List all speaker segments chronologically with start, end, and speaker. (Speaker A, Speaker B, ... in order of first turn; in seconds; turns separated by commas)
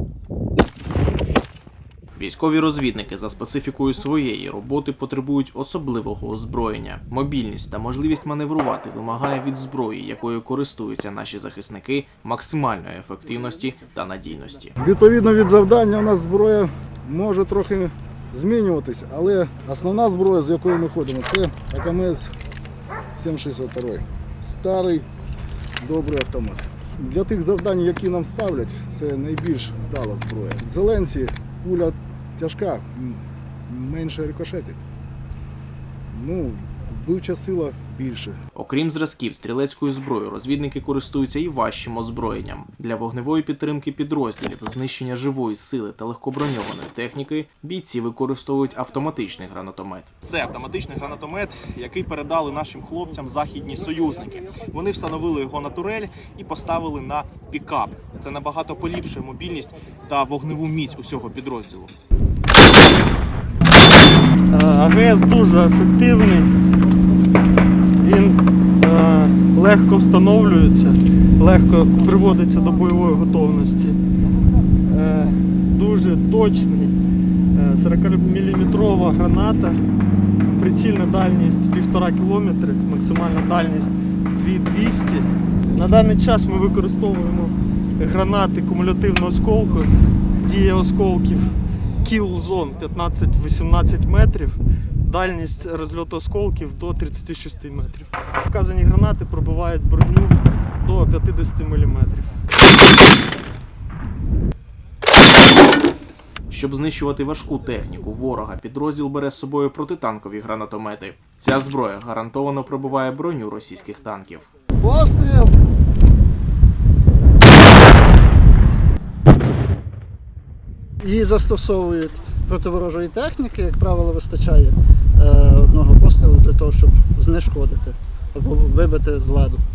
Speaker A: 2.1-14.8, Speaker B: 14.8-22.3, Speaker B: 23.1-25.1, Speaker B: 25.8-34.8, Speaker B: 36.1-38.4, Speaker A: 38.5-61.9, Speaker C: 64.5-66.5, Speaker C: 68.0-74.0, Speaker C: 74.8-76.9, Speaker C: 77.5-79.8, Speaker C: 80.5-102.3, Speaker A: 106.5-114.5, Speaker D: 114.8-115.5, Speaker D: 121.0-129.6